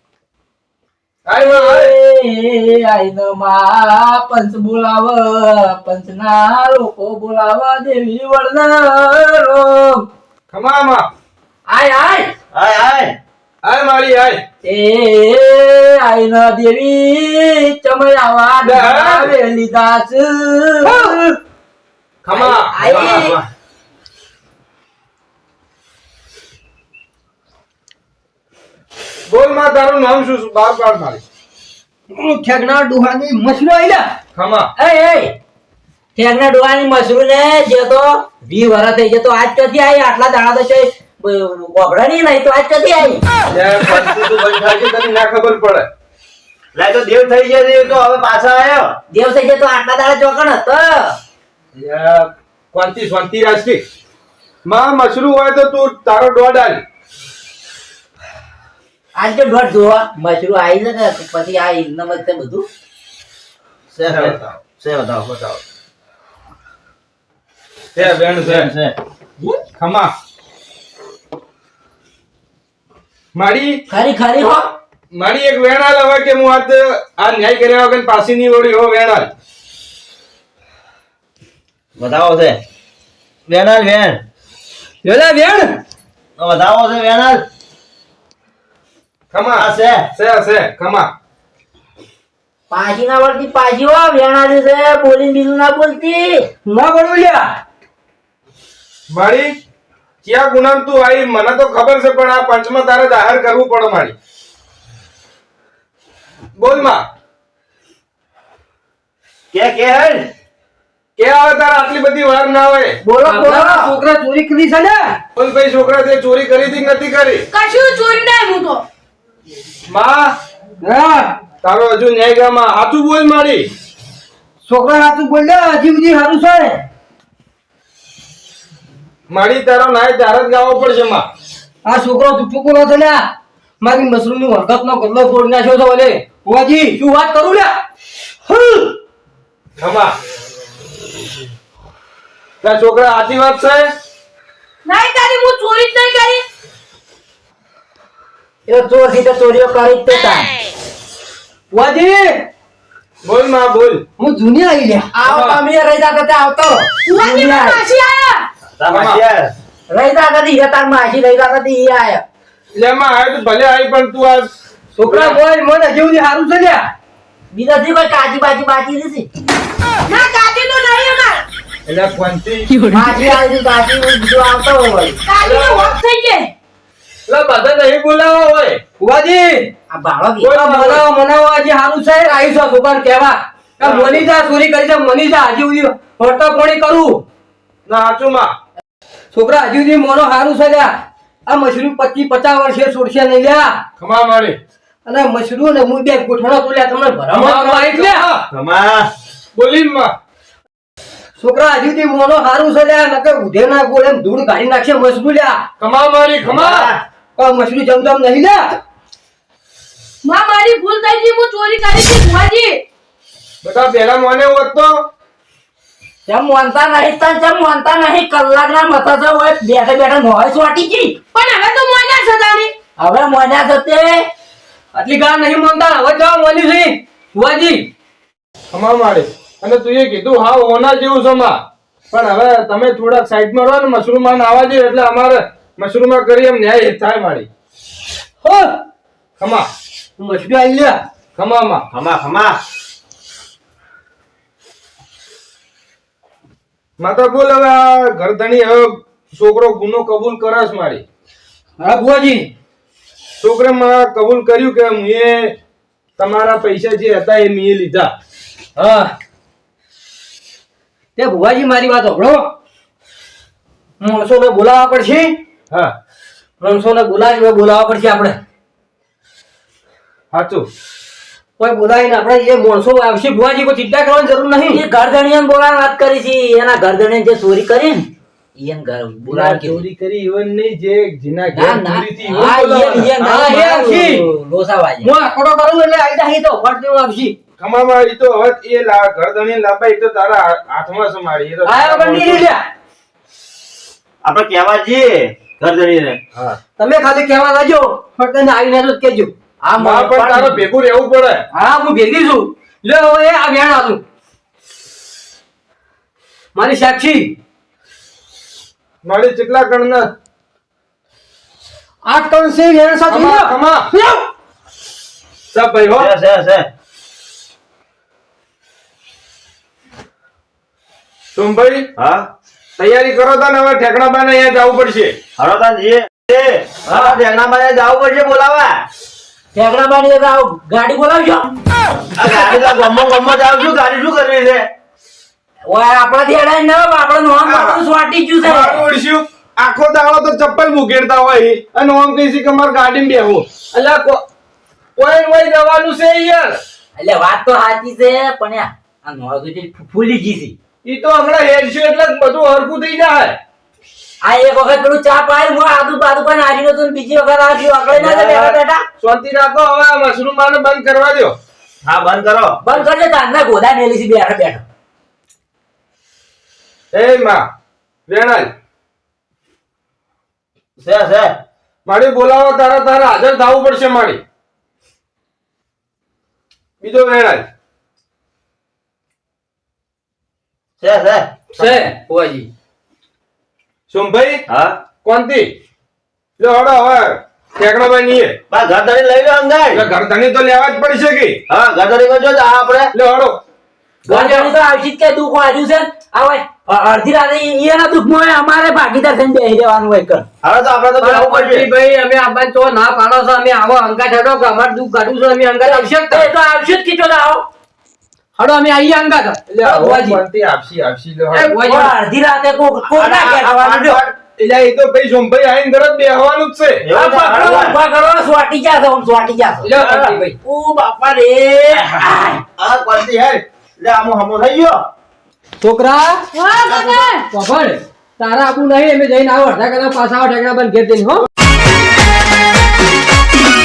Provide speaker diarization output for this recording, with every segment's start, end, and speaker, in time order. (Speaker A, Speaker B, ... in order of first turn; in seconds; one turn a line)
Speaker A: 1.3-1.9
Speaker B: 1.3-10.1
Speaker A: 10.5-11.1
Speaker B: 11.7-12.3
Speaker C: 12.5-13.2
Speaker A: 13.6-14.4
Speaker B: 14.6-21.4
Speaker A: 18.6-19.3
Speaker A: 22.2-23.5
Speaker B: 22.3-23.4
Speaker A: 29.3-31.2
Speaker D: 32.1-34.1
Speaker A: 34.4-34.7
Speaker B: 34.8-35.4
Speaker B: 36.2-43.2
Speaker A: 43.5-45.9
Speaker C: 46.8-48.9
Speaker B: 49.1-51.2
Speaker A: 51.8-53.8
Speaker A: 54.7-56.8
Speaker B: 59.2-62.7
Speaker C: 63.9-65.6
Speaker A: 64.1-64.4
Speaker A: 68.0-68.7
Speaker C: 68.0-69.0
Speaker A: 69.8-70.1
Speaker A: 73.3-73.8
Speaker B: 73.9-74.7
Speaker A: 75.1-79.3
Speaker C: 82.0-82.6
Speaker C: 83.5-84.2
Speaker D: 85.0-85.8
Speaker C: 86.4-87.4
Speaker A: 89.3-91.1
Speaker C: 89.6-90.0
Speaker B: 92.7-96.5
Speaker D: 96.7-97.5
Speaker A: 99.1-99.5
Speaker A: 100.2-104.2
Speaker A: 106.6-107.0
Speaker C: 109.5-110.3
Speaker A: 111.2-113.0
Speaker B: 113.0-114.0
Speaker D: 113.2-115.2
Speaker A: 115.4-117.5
Speaker E: 117.5-118.8
Speaker A: 119.9-120.3
Speaker D: 120.8-121.4
Speaker A: 121.6-123.7
Speaker D: 124.7-126.8
Speaker A: 129.3-131.3
Speaker D: 131.8-133.2
Speaker D: 133.8-137.7
Speaker D: 138.5-138.9
Speaker A: 139.8-140.1
Speaker A: 142.6-143.9
Speaker E: 144.9-146.4
Speaker B: 148.7-150.5
Speaker D: 151.7-152.4
Speaker A: 153.2-154.0
Speaker D: 154.2-155.1
Speaker B: 155.1-157.8
Speaker A: 155.3-155.6
Speaker E: 157.1-158.5
Speaker C: 158.8-159.5
Speaker A: 158.9-159.2
Speaker B: 159.9-162.2
Speaker A: 162.8-164.5
Speaker D: 165.0-166.9
Speaker A: 165.0-165.4
Speaker B: 167.5-169.3
Speaker E: 170.1-171.4
Speaker A: 171.9-172.7
Speaker B: 172.9-175.2
Speaker E: 175.3-176.5
Speaker A: 175.4-175.9
Speaker A: 177.3-178.8
Speaker D: 179.0-179.7
Speaker B: 179.9-180.5
Speaker A: 180.4-181.0
Speaker D: 180.5-187.2
Speaker A: 183.8-184.2
Speaker A: 187.9-188.5
Speaker D: 189.3-190.9
Speaker D: 191.5-193.8
Speaker A: 194.0-194.6
Speaker D: 195.1-198.2
Speaker A: 197.3-198.5
Speaker C: 198.5-199.1
Speaker A: 199.6-200.1
Speaker D: 201.4-205.6
Speaker A: 205.8-206.9
Speaker C: 206.5-207.0
Speaker D: 207.4-208.8
Speaker E: 210.2-212.8
Speaker A: 213.6-215.0
Speaker B: 216.3-221.2
Speaker E: 221.3-222.7
Speaker B: 223.0-224.3
Speaker D: 224.9-227.9
Speaker A: 228.7-231.6
Speaker A: 232.1-237.5
Speaker D: 238.4-238.8
Speaker A: 239.4-239.7
Speaker D: 240.2-241.0
Speaker A: 241.4-241.8
Speaker C: 241.9-242.6
Speaker A: 247.0-251.0
Speaker D: 251.8-252.5
Speaker A: 253.4-255.5
Speaker A: 256.2-258.1
Speaker D: 258.8-259.1
Speaker D: 261.2-262.5
Speaker D: 264.0-265.4
Speaker D: 266.6-268.4
Speaker A: 270.3-270.7
Speaker D: 271.6-274.8
Speaker B: 274.7-279.9
Speaker A: 279.3-283.1
Speaker B: 281.5-285.1
Speaker D: 283.2-284.3
Speaker D: 285.0-287.4
Speaker A: 287.6-292.5
Speaker D: 291.7-292.6
Speaker C: 294.2-296.2
Speaker D: 296.8-299.3
Speaker B: 299.6-300.6
Speaker A: 299.8-301.4
Speaker D: 301.5-304.0
Speaker D: 306.6-307.4
Speaker A: 309.0-310.1
Speaker D: 312.1-314.2
Speaker A: 313.1-313.9
Speaker A: 315.5-316.1
Speaker C: 316.0-316.7
Speaker A: 321.4-321.9
Speaker C: 322.0-322.3
Speaker A: 322.8-325.2
Speaker C: 325.4-328.8
Speaker B: 326.9-327.2
Speaker B: 329.5-331.5
Speaker C: 332.2-334.7
Speaker B: 335.7-338.9
Speaker A: 337.4-337.8
Speaker A: 338.4-344.2
Speaker A: 345.0-346.6
Speaker B: 347.0-350.6
Speaker A: 350.8-353.4
Speaker B: 354.2-358.8
Speaker C: 357.9-358.6
Speaker A: 359.0-361.4
Speaker C: 361.9-362.6
Speaker B: 362.6-364.6
Speaker A: 366.9-367.4
Speaker A: 368.1-368.5
Speaker C: 370.8-371.3
Speaker A: 371.9-374.2
Speaker A: 376.8-377.4
Speaker C: 380.8-381.8
Speaker D: 381.6-382.5
Speaker A: 383.9-384.4
Speaker C: 384.5-384.8
Speaker A: 385.0-385.5
Speaker A: 386.4-388.4
Speaker C: 388.5-389.9
Speaker A: 389.7-391.4
Speaker C: 391.5-392.9
Speaker A: 392.9-393.4
Speaker B: 394.1-400.3
Speaker D: 394.1-394.5
Speaker C: 400.4-401.7
Speaker D: 401.0-406.3
Speaker B: 405.6-407.5
Speaker D: 408.4-410.2
Speaker A: 409.5-411.5
Speaker D: 411.3-411.9
Speaker B: 411.5-414.0
Speaker C: 412.9-414.1
Speaker A: 414.4-416.8
Speaker C: 416.8-417.8
Speaker B: 416.9-419.7
Speaker D: 419.6-420.4
Speaker C: 419.7-420.1
Speaker B: 420.4-422.4
Speaker C: 422.6-424.8
Speaker D: 425.6-431.3
Speaker E: 426.3-427.3